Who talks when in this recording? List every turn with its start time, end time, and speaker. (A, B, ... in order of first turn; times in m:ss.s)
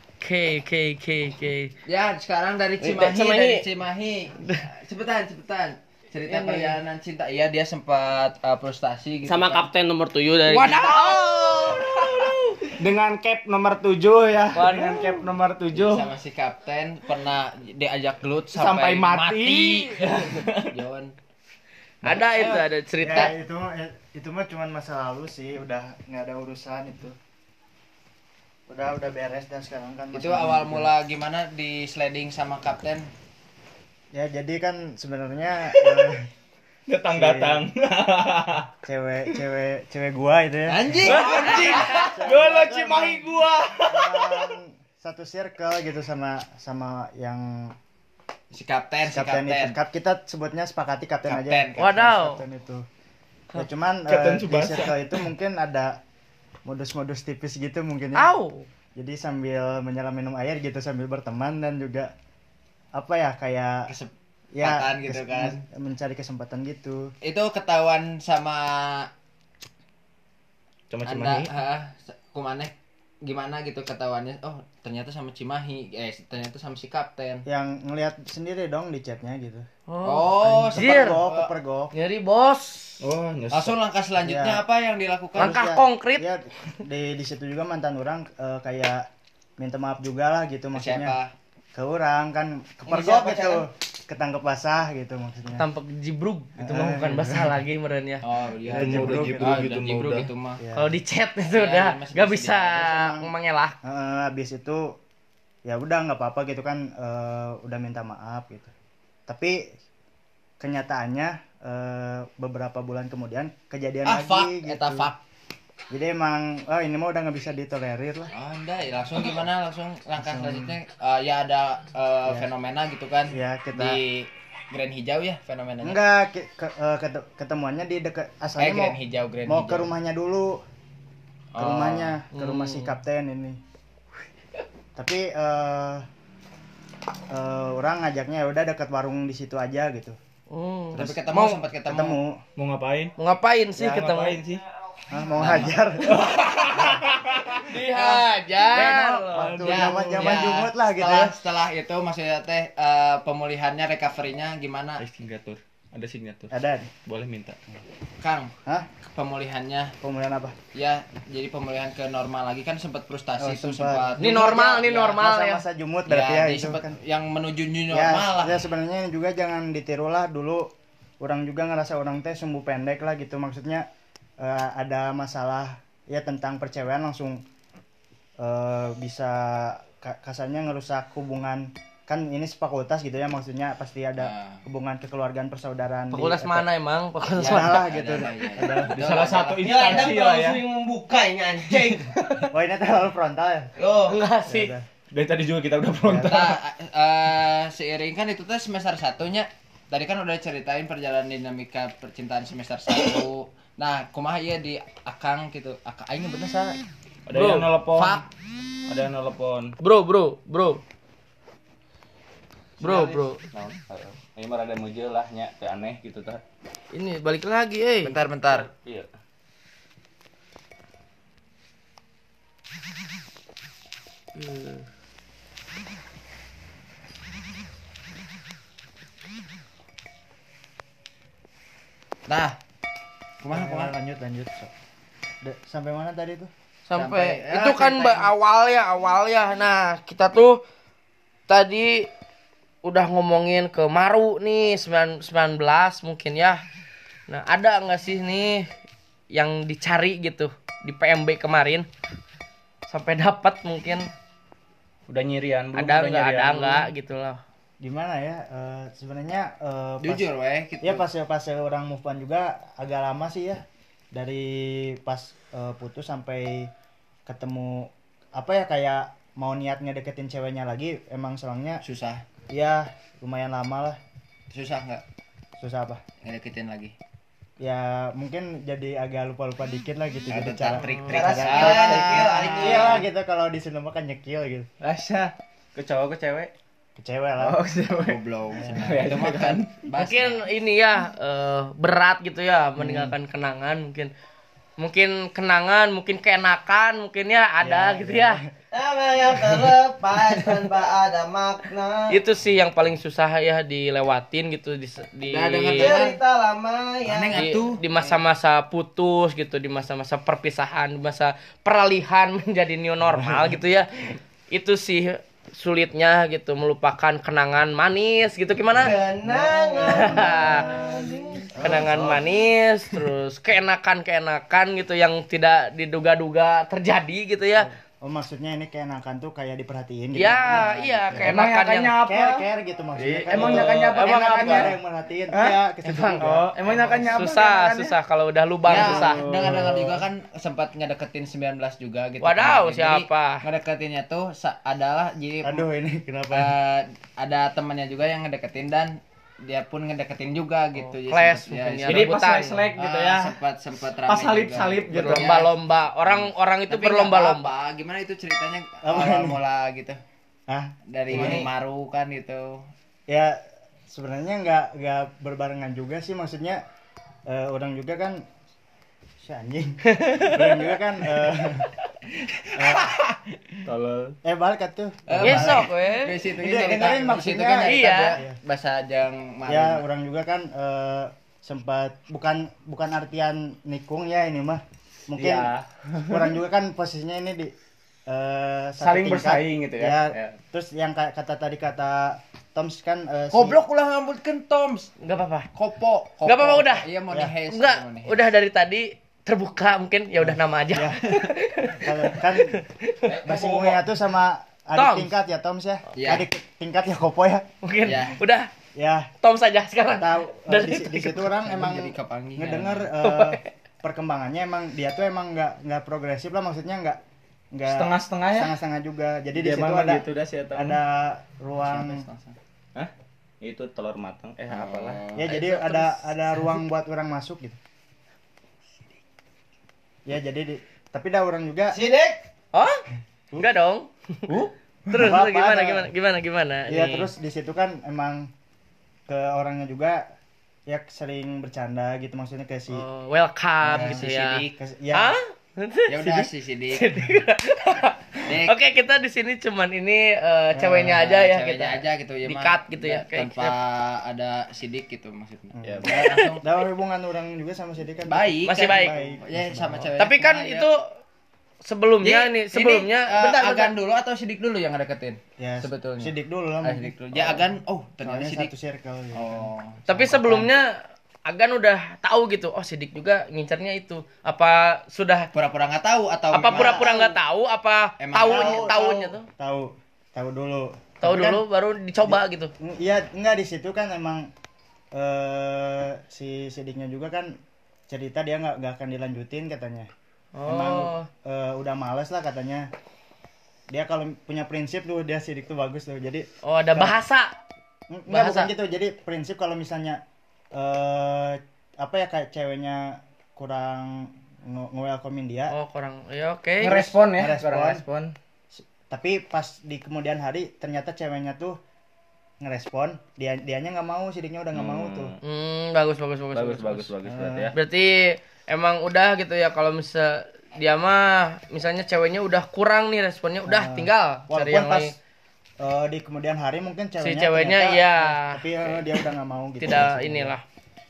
0:00.2-0:01.7 A
0:01.9-0:09.7 B
0:02.8-0:03.6 C
0:06.3-0:06.8 C
0:09.3-0:12.0 C
0:10.5-0:12.7 A
0:12.8-0:16.1 D
0:14.5-0:15.3 A
0:15.7-0:21.2 B
0:18.5-0:20.8 D
0:22.0-0:23.3 A
0:23.0-0:27.2 E
0:28.7-0:30.9 E
0:30.1-0:33.1 B
0:34.1-0:36.3 E
0:35.7-0:36.1 D
0:36.9-0:38.7 D
0:37.1-0:37.7 E
0:38.8-0:43.3 E
0:40.7-0:42.1 B
0:41.1-0:44.6 D
0:41.3-0:41.8 A
0:43.9-0:47.8 E
0:48.5-0:49.8 B
0:49.1-0:52.8 E
0:51.3-0:52.0 B
0:51.8-0:52.4 A
0:53.6-0:56.0 E
0:54.1-0:55.2 D
0:56.6-0:58.3 E
0:58.2-0:58.7 A
0:59.0-1:02.1 E
1:03.0-1:03.9 E
1:03.9-1:05.6 B
1:04.6-1:07.1 E
1:07.2-1:09.1 B
1:10.9-1:11.5 D
1:11.0-1:17.4 B
1:17.5-1:19.7 E
1:19.9-1:21.2 A
1:20.0-1:21.5 B
1:20.4-1:21.9 E
1:21.9-1:23.0 A
1:23.0-1:23.8 D
1:23.5-1:25.6 B
1:24.2-1:24.6 E
1:25.4-1:29.0 E
1:25.4-1:26.3 A
1:29.6-1:31.2 E
1:30.8-1:31.3 B
1:31.8-1:35.7 E
1:32.9-1:33.6 C
1:35.6-1:38.2 A
1:36.6-1:37.6 E
1:38.2-1:40.6 B
1:38.7-1:40.3 D
1:38.7-1:39.7 E
1:40.6-1:40.9 E
1:40.8-1:43.8 A
1:41.5-1:42.9 B
1:42.8-1:43.3 E
1:43.8-1:44.9 E
1:45.7-1:48.7 E
1:49.3-1:49.6 E
1:50.6-1:55.1 E
1:54.1-1:55.2 B
1:55.9-1:58.3 E
1:58.3-2:06.0 B
2:00.2-2:00.8 E
2:03.3-2:04.0 E
2:05.8-2:10.6 E
2:08.6-2:09.9 B
2:11.5-2:12.2 B
2:11.6-2:13.6 E
2:12.3-2:13.0 A
2:15.0-2:16.1 E
2:17.3-2:20.2 E
2:20.5-2:21.6 A
2:20.9-2:22.2 B
2:21.0-2:21.2 E
2:21.9-2:22.4 E
2:22.6-2:23.1 D
2:23.2-2:24.4 A
2:23.8-2:24.6 D
2:25.1-2:26.2 E
2:25.4-2:26.9 B
2:26.3-2:27.6 D
2:27.6-2:29.5 A
2:27.8-2:28.3 B
2:28.7-2:31.4 E
2:29.3-2:30.5 D
2:29.6-2:35.0 B
2:35.0-2:36.5 D
2:36.5-2:36.9 E
2:37.0-2:37.6 D
2:38.2-2:38.5 B
2:39.1-2:39.9 B
2:40.0-2:40.6 E
2:40.7-2:45.2 B
2:43.4-2:47.0 E
2:44.2-2:45.6 A
2:46.1-2:48.6 B
2:47.9-2:53.9 E
2:54.4-2:57.4 E
2:58.4-3:06.7 E
3:04.2-3:04.6 B
3:06.1-3:07.9 A
3:07.4-3:10.2 B
3:07.4-3:09.1 E
3:08.9-3:10.6 D
3:09.6-3:12.1 C
3:12.5-3:13.7 E
3:13.8-3:14.2 C
3:14.1-3:14.7 A
3:14.5-3:14.9 E
3:15.1-3:16.6 D
3:16.0-3:16.5 E
3:16.2-3:26.8 B
3:27.3-3:28.2 D
3:27.3-3:27.7 A
3:27.9-3:28.3 B
3:28.9-3:29.7 D
3:29.8-3:30.8 A
3:32.8-3:33.4 A
3:32.8-3:36.4 D
3:36.9-3:38.1 A
3:38.0-3:38.7 B
3:38.5-3:39.1 D
3:44.4-3:44.9 A
3:52.3-3:52.6 B
3:53.4-3:53.9 B
3:53.5-3:54.7 E
3:55.4-3:56.5 E
3:56.9-4:00.6 A
3:56.9-3:58.3 B
4:01.5-4:02.1 A
4:02.8-4:06.6 A
4:07.3-4:08.7 A
4:09.3-4:11.9 A
4:12.9-4:14.1 A
4:15.1-4:16.9 D
4:15.7-4:17.4 A
4:17.8-4:20.3 E
4:20.0-4:21.0 B
4:20.8-4:26.7 E
4:27.3-4:31.8 E
4:31.8-4:32.2 B
4:32.5-4:34.0 E
4:34.5-4:35.0 B
4:35.6-4:36.0 E
4:36.2-4:37.0 B
4:37.6-4:44.7 E
4:40.3-4:43.0 B
4:40.8-4:41.2 A
4:41.1-4:43.0 C
4:44.8-4:46.5 D
4:47.0-4:47.6 E
4:47.4-4:49.6 D
4:48.0-4:50.4 B
4:50.0-4:54.1 A
4:52.8-4:53.2 E
4:54.8-4:58.4 A
4:57.6-4:58.5 E
4:58.7-5:02.2 C
5:02.1-5:06.0 A
5:05.3-5:06.2 B
5:05.8-5:07.4 C
5:07.0-5:08.2 B
5:07.3-5:19.0 A
5:13.1-5:13.6 E
5:18.8-5:22.2 C
5:19.2-5:22.0 E
5:19.8-5:20.6 A
5:21.6-5:27.7 A
5:27.6-5:31.3 E
5:30.2-5:32.0 A
5:31.2-5:34.8 D
5:32.0-5:37.0 E
5:33.3-5:34.7 A
5:35.3-5:35.6 D
5:35.8-5:36.2 A
5:36.2-5:38.0 D
5:37.0-5:39.2 A
5:38.7-5:45.7 B
5:38.7-5:40.0 D
5:42.2-5:43.4 A
5:45.4-5:46.5 E
5:46.3-5:52.2 B
5:50.8-5:52.7 A
5:51.8-5:53.4 D
5:52.8-5:55.5 B
5:54.0-5:55.4 D
5:54.9-5:57.5 A
5:56.1-6:00.0 B
5:58.8-5:59.4 E
6:00.5-6:01.5 E
6:00.9-6:02.7 B
6:01.1-6:01.5 D
6:03.1-6:06.6 E
6:07.3-6:08.2 E
6:09.2-6:11.7 E
6:10.0-6:10.3 A
6:12.6-6:13.0 E
6:13.6-6:14.2 D
6:14.2-6:15.7 E
6:15.1-6:19.8 B
6:15.2-6:16.2 A
6:16.3-6:18.4 E
6:17.6-6:18.2 A
6:19.5-6:25.5 E
6:25.2-6:26.3 D
6:26.1-6:27.5 E
6:28.1-6:33.6 E
6:28.8-6:30.4 D
6:33.3-6:34.9 B
6:35.0-6:35.5 A
6:35.5-6:38.2 B
6:36.2-6:36.9 A
6:37.5-6:43.1 A
6:40.2-6:41.0 E
6:41.8-6:42.6 E
6:43.1-6:43.8 B
6:43.2-6:47.4 E
6:44.8-6:45.1 A
6:46.0-6:46.3 B
6:47.6-6:48.5 A
6:47.8-6:48.2 B
6:48.8-6:49.1 E
6:49.2-6:51.2 A
6:50.0-6:57.0 E
6:51.2-6:52.9 B
6:53.0-6:53.5 A
6:57.5-7:02.0 E
6:57.7-6:58.6 D
6:59.3-7:00.8 D
7:01.6-7:02.4 B
7:03.4-7:05.5 D
7:04.5-7:05.8 B
7:05.2-7:07.6 E
7:10.1-7:11.8 E
7:11.7-7:12.2 C
7:12.5-7:12.8 A
7:13.4-7:13.9 A
7:14.9-7:17.1 A
7:15.0-7:15.9 E
7:16.7-7:18.3 E
7:19.1-7:20.0 E
7:20.7-7:22.8 E
7:22.7-7:33.6 A
7:23.6-7:25.1 E
7:23.6-7:24.6 B
7:25.9-7:27.0 B
7:28.2-7:28.6 B
7:30.6-7:31.1 E
7:30.9-7:36.5 B
7:35.6-7:39.9 E
7:38.1-7:40.7 B
7:38.5-7:39.0 A
7:40.0-7:40.8 A
7:41.6-7:43.8 A
7:42.0-7:48.5 B
7:45.4-7:47.5 E
7:48.0-7:50.5 E
7:49.1-7:49.9 B
7:49.9-7:50.7 A
7:51.3-7:55.3 A
7:55.3-7:57.0 B
7:56.3-7:59.3 A
7:56.4-7:57.2 E
7:58.0-7:58.8 B
7:58.2-8:01.4 E
8:01.0-8:02.5 A
8:02.1-8:04.3 E
8:04.9-8:07.3 E
8:07.9-8:09.9 E
8:10.4-8:11.1 A
8:10.4-8:12.7 E
8:13.7-8:17.0 E
8:16.4-8:17.4 A
8:17.9-8:20.0 E
8:18.1-8:18.5 A
8:20.5-8:25.6 E
8:25.5-8:26.9 A
8:26.6-8:28.1 D
8:26.7-8:27.8 E
8:28.5-8:31.6 E
8:32.4-8:35.2 E
8:34.5-8:35.2 D
8:35.2-8:36.9 A
8:36.3-8:37.6 D
8:37.0-8:37.5 E
8:37.5-8:44.9 A
8:43.5-8:45.0 E
8:45.6-8:50.3 E
8:47.0-8:48.4 A
8:49.6-8:50.4 A